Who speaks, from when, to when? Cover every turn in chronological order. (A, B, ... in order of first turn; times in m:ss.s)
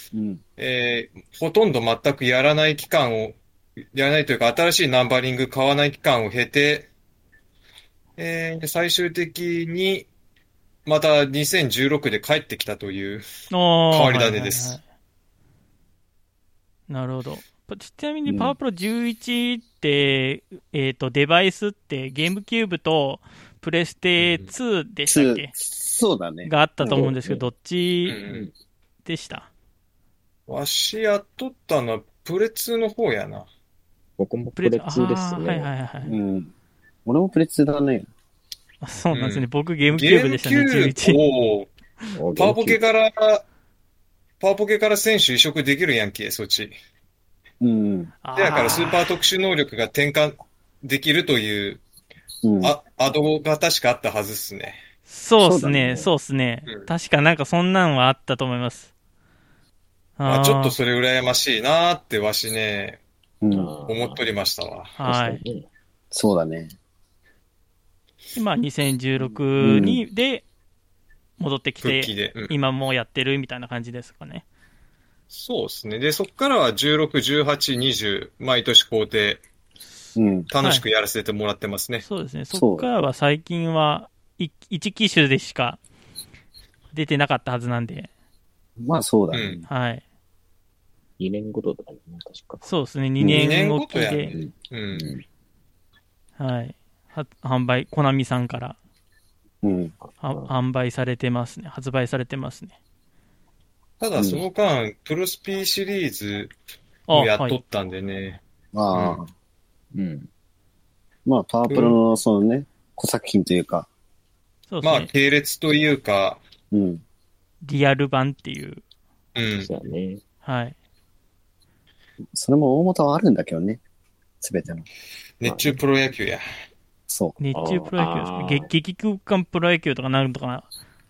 0:00.1-0:00.4 A
0:00.6-0:03.4 B
0:03.9-0:06.9 B
0:08.2-0:10.1 B
0:10.9-0:13.2 B
0:13.5-0:14.8 C
0:13.9-0:14.8 B
0:16.9-0:25.5 C
0:18.3-0:18.6 A
0:24.2-0:24.5 B
0:25.1-0:27.4 A
0:26.4-0:28.2 C
0:28.1-0:28.5 B
0:28.3-0:28.5 D
0:29.0-0:29.5 C
0:30.5-0:33.5 B
0:34.2-0:35.7 D
0:34.6-0:36.1 C
0:36.1-0:36.5 A
0:37.1-0:38.1 A
0:38.8-0:41.2 C
0:39.1-0:41.7 B
0:42.2-0:42.8 D
0:42.4-0:43.4 B
0:44.4-0:46.8 B
0:47.6-0:48.1 A
0:48.2-0:49.0 C
0:48.4-0:51.8 B
0:52.4-0:52.8 A
0:52.6-0:54.8 B
0:55.1-0:58.9 C
0:55.4-0:56.1 A
1:00.2-1:00.8 C
1:00.2-1:03.0 B
1:03.4-1:03.7 A
1:03.5-1:04.1 D
1:03.9-1:05.0 B
1:05.0-1:05.4 C
1:05.0-1:05.7 D
1:06.1-1:06.7 A
1:08.4-1:10.5 C
1:09.6-1:10.0 A
1:11.4-1:14.4 C
1:11.8-1:12.5 B
1:15.3-1:19.4 B
1:20.2-1:20.5 A
1:20.5-1:22.0 B
1:22.0-1:25.8 C
1:22.5-1:22.9 A
1:26.9-1:28.1 C
1:28.8-1:29.5 A
1:29.3-1:29.6 B
1:29.7-1:30.0 C
1:31.2-1:32.7 D
1:32.6-1:34.4 C
1:33.2-1:33.5 A
1:33.3-1:35.1 B
1:36.4-1:38.8 C
1:39.6-1:39.9 A
1:40.0-1:40.5 D
1:40.2-1:42.8 C
1:44.0-1:46.5 B
1:44.2-1:44.4 A
1:47.1-1:47.6 C
1:47.1-1:48.4 B
1:48.7-1:49.3 A
1:48.9-1:49.2 B
1:49.9-1:50.3 D
1:51.3-1:53.9 A
1:51.7-1:52.0 B
1:54.7-1:55.1 C
1:54.8-1:56.4 B
1:56.7-1:57.0 A
1:57.6-1:58.8 C
1:59.4-1:59.7 B
1:59.6-2:00.2 D
2:00.4-2:00.8 C
2:02.3-2:03.8 A
2:04.4-2:04.9 A
2:05.4-2:06.4 B
2:05.4-2:05.8 D
2:07.1-2:07.4 A
2:07.4-2:10.7 C
2:07.5-2:08.7 D